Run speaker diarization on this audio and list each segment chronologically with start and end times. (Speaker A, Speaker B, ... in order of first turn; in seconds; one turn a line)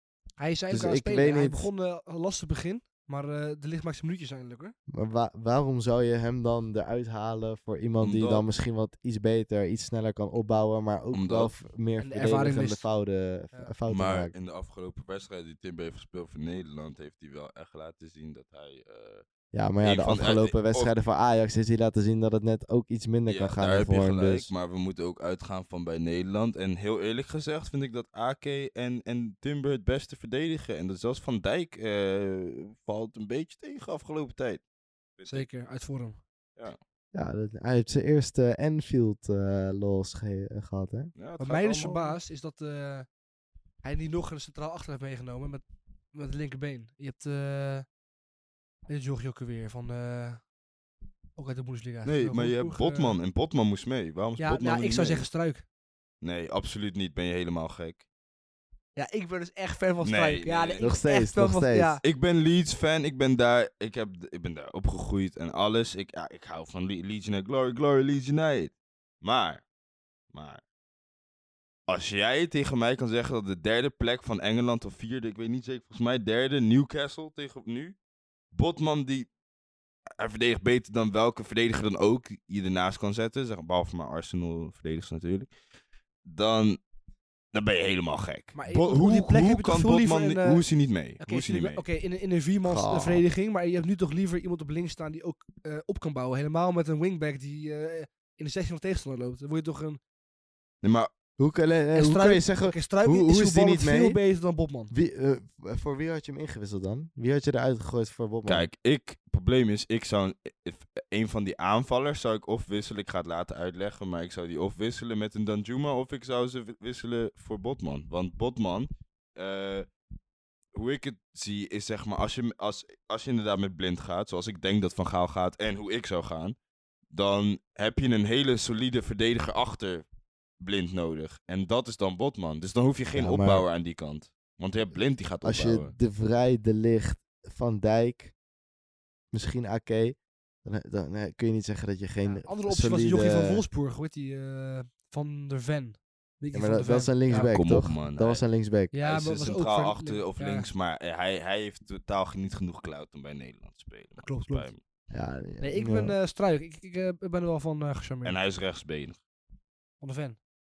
Speaker A: 0.4-4.7
Speaker B: 0.7-1.7
Speaker B: 4.9-14.3
Speaker C: 8.0-8.5
Speaker C: 11.1-11.5
Speaker A: 12.0-12.8
Speaker C: 13.9-19.2
Speaker B: 19.5-24.5
Speaker C: 19.8-20.9
Speaker C: 23.3-34.6
Speaker C: 35.2-35.5
Speaker A: 35.3-36.2
Speaker B: 37.1-41.1
Speaker C: 41.2-42.2
Speaker A: 41.4-43.1
Speaker A: 43.8-47.9
Speaker A: 48.9-50.4
Speaker A: 51.4-53.2
Speaker C: 52.0-55.3
Speaker A: 54.4-55.6
Speaker C: 56.2-58.0
Speaker A: 59.0-62.0
Speaker C: 60.0-60.9
Speaker B: 60.8-62.0
Speaker C: 62.0-69.6
Speaker C: 70.3-70.6
Speaker C: 71.9-78.0
Speaker C: 78.5-79.3
Speaker C: 80.2-85.5
Speaker C: 86.2-86.8
Speaker C: 87.5-91.8
Speaker A: 88.5-90.6
Speaker A: 91.2-100.0
Speaker B: 92.6-93.2
Speaker C: 100.8-101.1
Speaker B: 101.4-104.2
Speaker A: 102.0-104.9
Speaker B: 104.9-108.7
Speaker C: 108.5-119.9
Speaker C: 120.7-126.6
Speaker C: 127.1-130.1
Speaker C: 130.6-135.9
Speaker B: 133.1-133.7
Speaker B: 135.4-138.3
Speaker B: 139.3-143.6
Speaker A: 142.2-147.5
Speaker B: 146.5-148.9
Speaker C: 147.4-148.4
Speaker A: 148.9-150.7
Speaker C: 149.0-154.8
Speaker A: 154.2-154.7
Speaker B: 155.1-156.2
Speaker A: 155.6-158.4
Speaker C: 158.2-159.2
Speaker A: 160.0-160.4